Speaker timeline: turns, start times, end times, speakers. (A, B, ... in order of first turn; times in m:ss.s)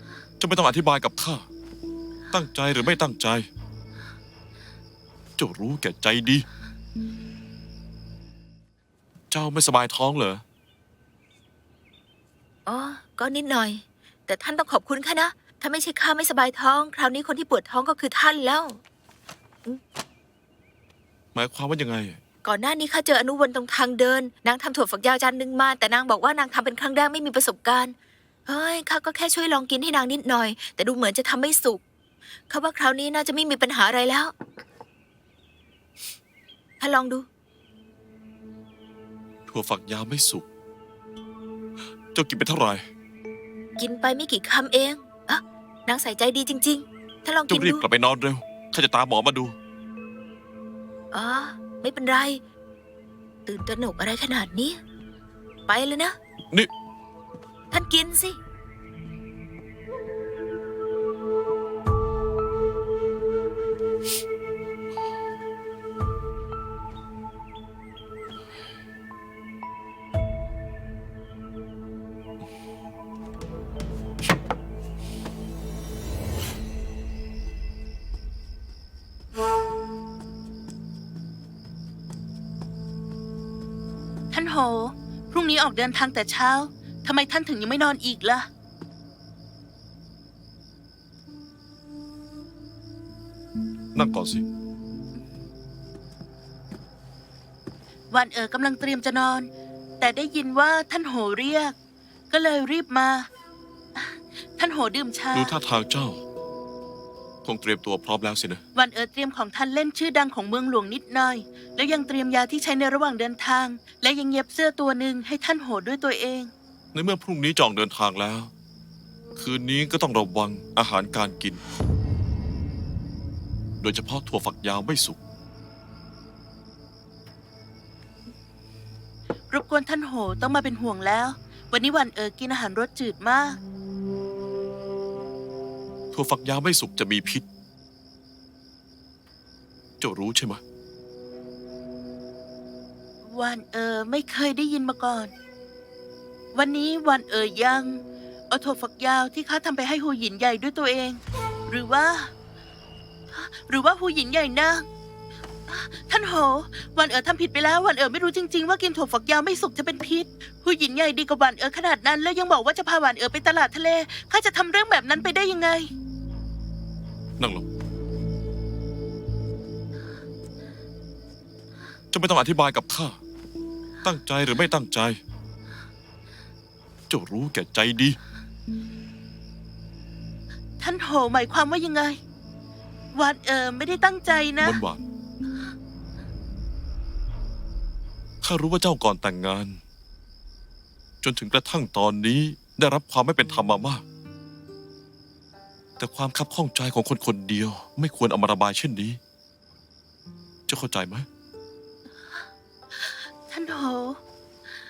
0:00.4-0:01.5 A
0:02.3-0:03.5 A
0:05.4-0:06.5 A
0:09.3-0:10.4 A
0:12.7-0:18.8 B
0:21.3-0:22.2 A
0:22.4-0:28.0 B
0:28.5-0:31.8 B
0:32.5-0:34.3 B
0:36.8-0:37.3 B
0:39.5-0:40.5 A
0:42.1-0:42.8 A
0:43.8-0:47.8 B
0:47.5-0:49.6 A
0:51.1-0:52.4 B
0:53.5-0:54.8 B
0:55.7-0:56.2 B
0:57.7-0:58.4 B
1:24.3-1:28.5 C
1:34.0-1:34.4 A
1:38.1-1:39.5 C
1:40.0-1:41.8 C
1:42.3-1:43.3 C
1:44.0-1:45.5 C
1:45.3-1:46.2 A
1:47.4-1:48.6 A
1:48.8-1:56.5 C
1:56.9-1:58.5 A
1:59.4-2:01.6 A
2:03.8-2:05.2 A
2:09.5-2:13.6 C
2:16.1-2:17.5 A
2:20.0-2:20.6 A
2:23.2-2:25.3 C
2:26.5-2:32.3 C
2:33.3-2:34.8 C
2:35.7-2:45.9 C
2:47.4-2:47.6 A
2:52.1-2:53.2 A
2:54.0-2:55.2 A
2:57.1-2:58.2 A
3:00.8-3:02.2 C
3:03.1-3:04.8 C
3:04.6-3:05.0 A
3:08.4-3:09.8 A
3:11.2-3:14.0 A
3:16.0-3:19.2 A
3:20.7-3:21.3 A
3:23.5-3:24.2 C